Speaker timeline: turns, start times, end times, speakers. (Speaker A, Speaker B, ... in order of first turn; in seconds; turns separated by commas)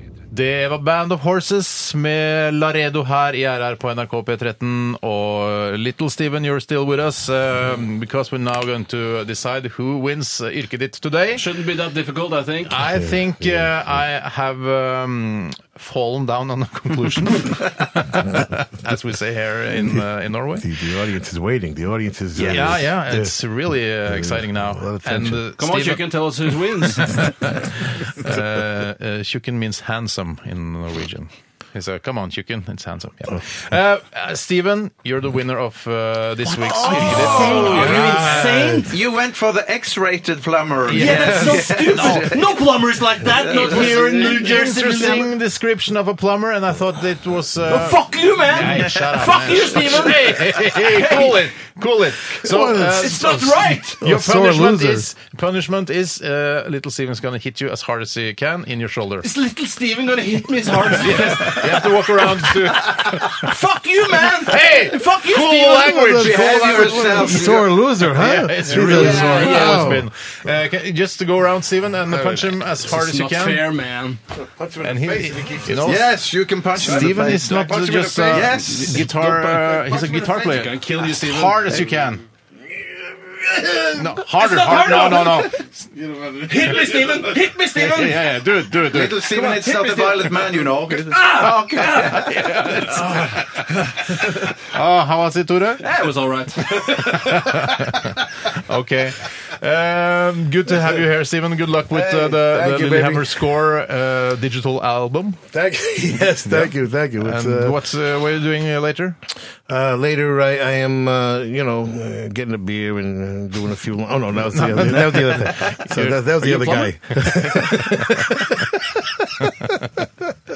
Speaker A: 0.3-11.4, Speaker B: 11.3-12.8, Speaker A: 12.7-20.7, Speaker C: 12.8-13.7, Speaker C: 20.6-23.3, Speaker D: 22.3-22.9, Speaker A: 22.4-38.9, Speaker C: 24.0-25.4, Speaker B: 25.6-27.3, Speaker B: 36.6-38.9, Speaker D: 36.7-42.6, Speaker A: 40.9-42.4, Speaker B: 40.9-45.3, Speaker D: 43.3-44.3, Speaker A: 43.5-59.3, Speaker B: 47.6-51.4, Speaker D: 48.6-49.0, Speaker C: 52.4-53.2, Speaker B: 52.9-54.0, Speaker C: 54.0-55.1, Speaker B: 59.2-66.1, Speaker A: 60.9-63.5, Speaker A: 64.2-73.7, Speaker C: 65.8-70.1, Speaker D: 66.0-67.7, Speaker B: 68.7-69.9, Speaker B: 72.8-74.2, Speaker C: 74.4-76.1, Speaker A: 74.8-82.2, Speaker D: 75.8-77.7, Speaker C: 76.8-78.6, Speaker D: 78.2-79.1, Speaker B: 79.5-81.8, Speaker C: 82.7-84.2, Speaker A: 84.0-85.6, Speaker B: 84.2-85.5, Speaker C: 85.5-87.5, Speaker B: 86.5-88.4, Speaker A: 87.7-89.3, Speaker D: 88.8-92.3, Speaker B: 89.2-94.5, Speaker A: 91.4-93.4, Speaker A: 94.7-95.9, Speaker B: 95.8-97.5, Speaker A: 97.0-105.4, Speaker C: 101.9-103.5, Speaker C: 105.5-107.8, Speaker A: 106.4-109.2, Speaker C: 109.7-118.7, Speaker A: 114.5-118.7, Speaker D: 115.4-115.8, Speaker A: 119.4-119.7